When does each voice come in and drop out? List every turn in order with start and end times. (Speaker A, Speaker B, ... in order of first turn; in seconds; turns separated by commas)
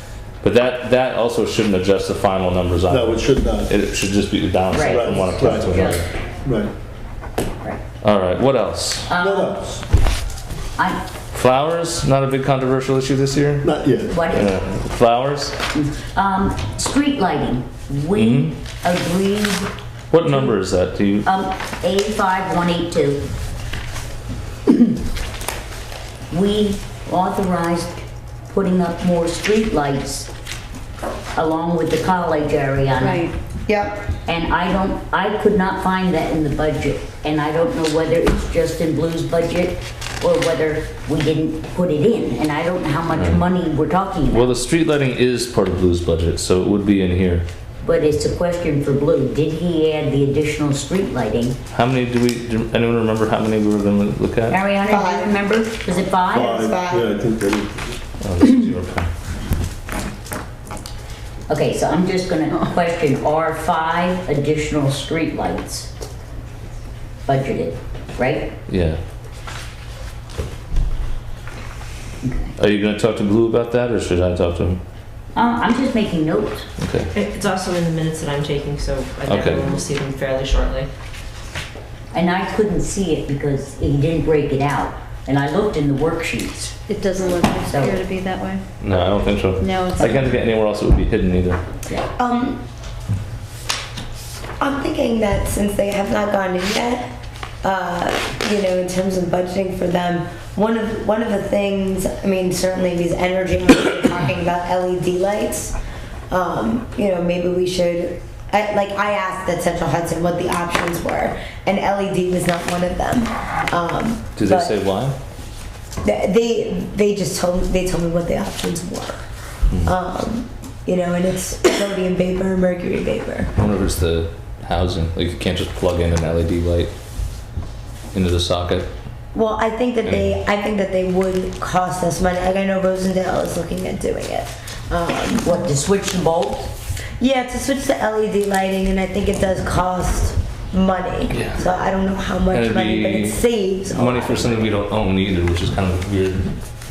Speaker A: 0.4-6.1, Speaker B: 2.9-3.7, Speaker C: 4.7-6.0, Speaker B: 4.8-5.9, Speaker B: 6.4-6.7, Speaker A: 8.0-9.1, Speaker C: 9.1-9.6, Speaker B: 9.2-9.8, Speaker A: 11.3-13.7, Speaker B: 13.6-14.2, Speaker C: 14.1-14.5, Speaker A: 14.3-15.6, Speaker C: 15.7-19.7, Speaker A: 18.1-18.5, Speaker A: 20.1-21.2, Speaker C: 21.2-23.2, Speaker C: 26.3-30.3, Speaker C: 31.4-33.3, Speaker D: 33.0-33.3, Speaker E: 33.7-34.0, Speaker C: 34.2-44.5, Speaker A: 43.1-43.4, Speaker A: 44.3-47.5, Speaker C: 47.8-51.6, Speaker A: 51.7-54.6, Speaker C: 54.5-56.6, Speaker E: 54.9-55.4, Speaker B: 56.3-58.0, Speaker E: 56.4-57.1, Speaker A: 58.2-59.1, Speaker C: 61.5-65.9, Speaker C: 67.3-68.5, Speaker A: 68.7-69.0, Speaker C: 72.2-72.5, Speaker A: 72.5-74.8, Speaker C: 75.3-76.7, Speaker A: 76.8-77.1, Speaker F: 77.1-80.9, Speaker A: 79.3-79.6, Speaker C: 82.1-86.8, Speaker D: 86.9-88.6, Speaker C: 87.7-88.0, Speaker A: 88.8-91.6, Speaker D: 89.5-90.4, Speaker E: 92.1-92.6, Speaker E: 94.6-97.1, Speaker E: 97.6-105.7, Speaker E: 106.3-114.7, Speaker A: 114.3-115.2, Speaker E: 116.0-119.2, Speaker E: 119.8-123.5, Speaker A: 123.5-126.9, Speaker A: 128.1-128.9, Speaker E: 129.3-135.5, Speaker A: 130.0-130.3, Speaker C: 135.4-136.7, Speaker E: 137.2-144.7, Speaker A: 141.3-141.6, Speaker A: 142.5-146.6